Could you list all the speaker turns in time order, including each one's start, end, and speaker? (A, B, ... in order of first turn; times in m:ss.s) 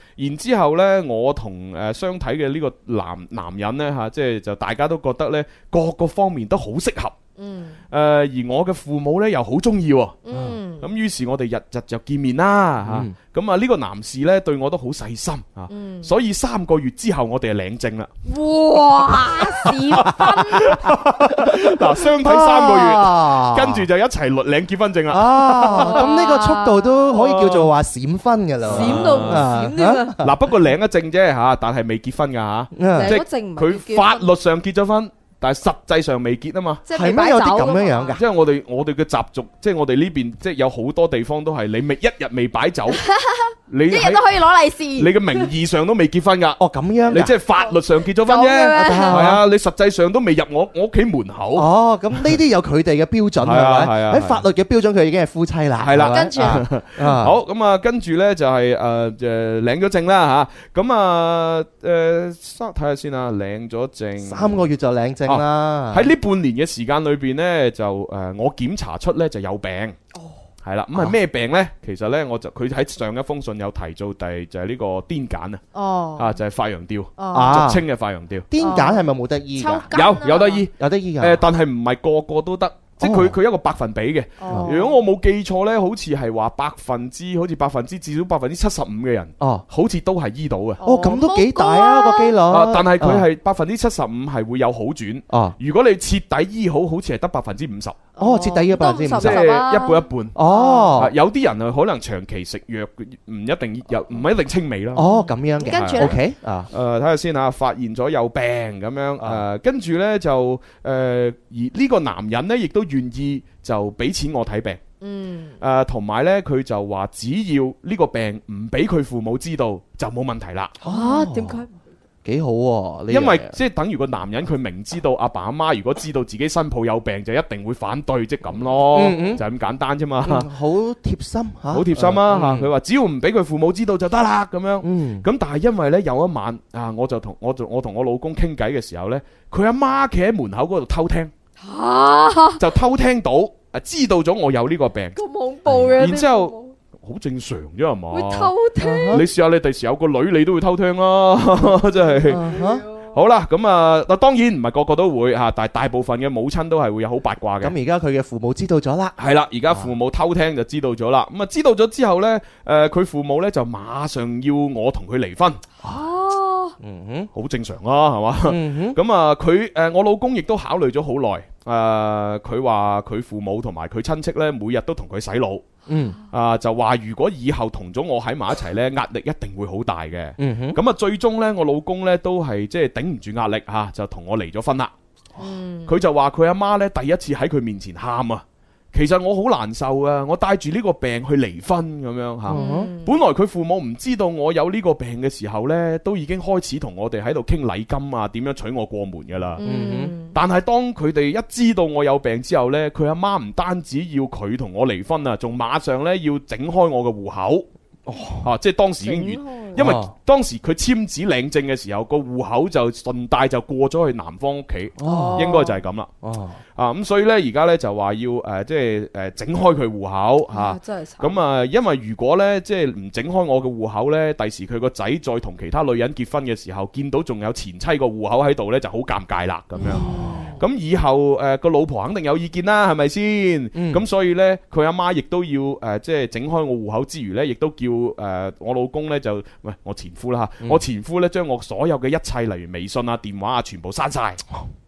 0:00.2-0:07.2 A
0:07.4-0:07.8 B
0:07.9-0:10.2 A
0:10.2-0:10.8 B
0:10.3-0:10.6 C
0:10.8-0:18.1 A
0:12.8-0:13.1 C
0:15.7-0:16.1 B
0:18.2-0:20.8 B
0:19.0-0:26.1 A
0:21.2-0:23.9 C
0:25.1-0:30.3 C
0:25.6-0:27.2 B
0:27.2-0:27.7 A
0:28.7-0:29.5 A
0:28.7-0:30.2 B
0:30.2-0:36.8 A
0:32.7-0:33.2 C
0:32.9-0:34.2 B
0:36.9-0:38.2 B
0:36.9-0:38.2 C
0:38.1-0:43.0 A
0:42.9-0:45.5 B
0:43.7-0:44.3 A
0:45.0-0:51.7 A
0:46.6-0:47.3 C
0:47.7-0:49.3 B
0:48.8-0:49.4 C
0:51.6-0:57.4 C
0:53.4-0:54.4 A
0:55.8-1:04.6 A
0:56.0-0:56.6 B
1:04.2-1:06.1 C
1:05.2-1:10.0 A
1:10.1-1:10.4 B
1:10.6-1:15.6 A
1:15.7-1:16.4 B
1:16.2-1:18.5 A
1:17.2-1:17.6 B
1:17.3-1:17.8 C
1:18.5-1:20.0 C
1:18.6-1:20.6 B
1:19.9-1:30.8 A
1:20.7-1:21.4 C
1:23.0-1:23.4 C
1:24.4-1:25.0 B
1:24.5-1:24.8 C
1:29.4-1:29.6 C
1:30.8-1:32.4 B
1:30.8-1:33.3 C
1:32.5-1:38.0 A
1:35.3-1:35.6 C
1:38.2-1:41.0 B
1:38.2-1:39.5 C
1:39.2-1:40.4 A
1:40.3-1:41.1 C
1:41.0-1:45.0 A
1:44.9-1:46.7 C
1:45.0-1:46.2 B
1:45.6-1:46.2 A
1:46.7-1:54.8 A
1:55.0-1:55.6 B
1:55.6-2:00.7 A
2:00.8-2:01.8 B
2:00.8-2:01.6 C
2:02.2-2:03.5 C
2:03.1-2:10.5 A
2:08.9-2:09.4 C
2:10.2-2:12.7 C
2:11.7-2:21.3 A
2:14.8-2:15.2 C
2:21.6-2:22.6 B
2:22.6-2:25.2 A
2:25.2-2:26.7 B
2:25.7-2:26.1 C
2:25.7-2:28.5 A
2:28.1-2:29.2 B
2:28.8-2:29.3 C
2:29.1-2:32.5 A
2:32.0-2:33.1 B
2:32.3-2:32.8 C
2:33.0-2:37.7 A
2:37.6-2:39.2 C
2:39.2-2:45.6 A
2:45.8-2:46.8 B
2:46.8-2:47.3 C
2:47.3-2:55.6 A
2:48.5-2:49.0 C
2:55.9-2:56.2 C
2:55.9-2:56.2 B
2:56.3-3:04.9 A
3:00.4-3:00.8 C
3:05.4-3:05.9 B
3:05.8-3:19.6 A
3:12.5-3:12.9 C
3:12.5-3:13.2 B
3:19.6-3:20.3 B
3:19.6-3:20.1 C
3:20.3-3:27.6 A
3:28.1-3:28.5 C
3:28.4-3:36.1 A
3:29.0-3:29.9 B
3:29.8-3:30.1 C
3:35.0-3:35.5 C
3:35.0-3:35.8 B
3:36.2-3:36.6 C
3:36.7-4:04.4 A
3:40.5-3:41.4 B
3:49.7-3:50.6 B
3:53.7-3:54.0 C